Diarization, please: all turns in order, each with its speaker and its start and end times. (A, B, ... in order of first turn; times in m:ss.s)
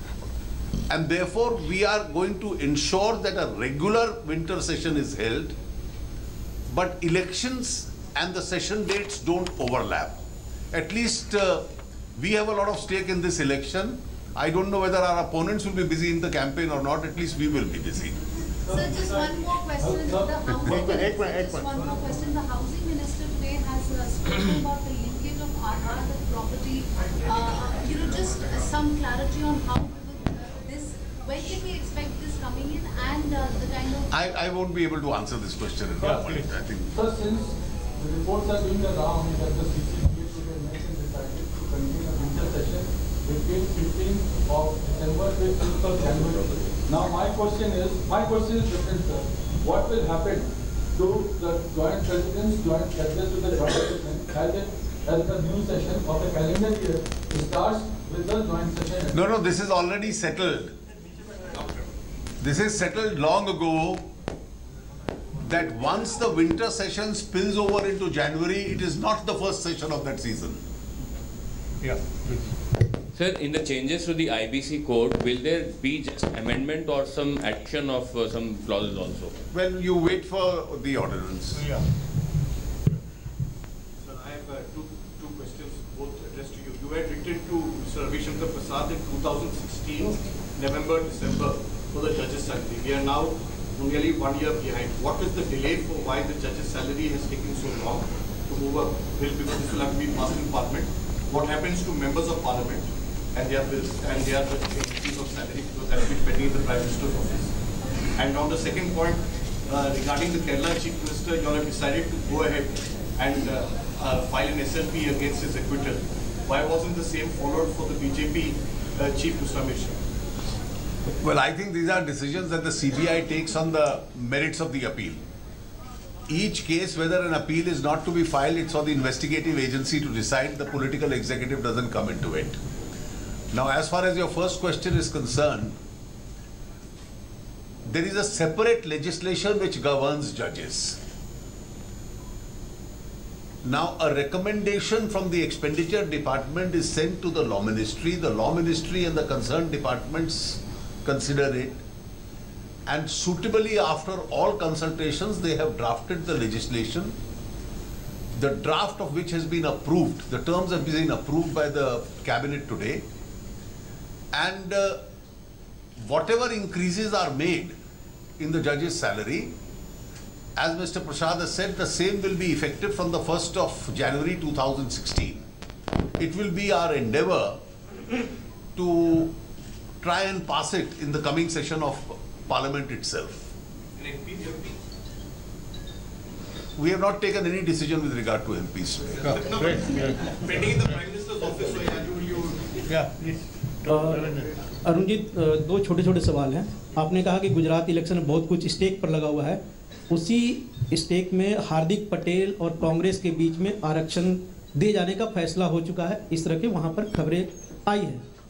0:00.9-0:05.5 A
0:06.7-0:18.2 A
0:18.7-0:20.4 B
0:18.7-0:34.1 C
0:20.6-0:21.7 D
0:34.1-0:36.9 A
0:36.0-0:36.4 D
0:36.9-0:59.2 B
0:59.1-1:00.7 A
1:02.4-1:04.1 A
1:05.4-1:10.6 A
1:11.8-1:12.5 D
1:13.1-1:19.3 E
1:19.5-1:21.6 A
1:21.6-1:21.8 D
1:24.0-1:47.5 F
1:48.2-2:00.0 F
2:01.2-2:05.2 A
2:06.3-2:12.6 A
2:13.5-2:15.7 A
2:17.8-2:21.0 A
2:23.6-2:31.8 A
2:32.8-2:37.1 A
2:38.3-2:43.0 A
2:44.3-2:45.0 A
2:46.0-2:47.8 A
2:48.4-2:49.5 A
2:50.6-2:55.4 A
2:56.2-2:57.6 A
2:58.8-2:59.3 A
3:00.0-3:03.5 A
3:04.0-3:04.8 F
3:06.8-3:09.4 A
3:09.2-3:12.9 F
3:09.2-3:10.4 D
3:12.9-3:14.5 D
3:13.8-3:14.3 G
3:14.8-3:28.2 G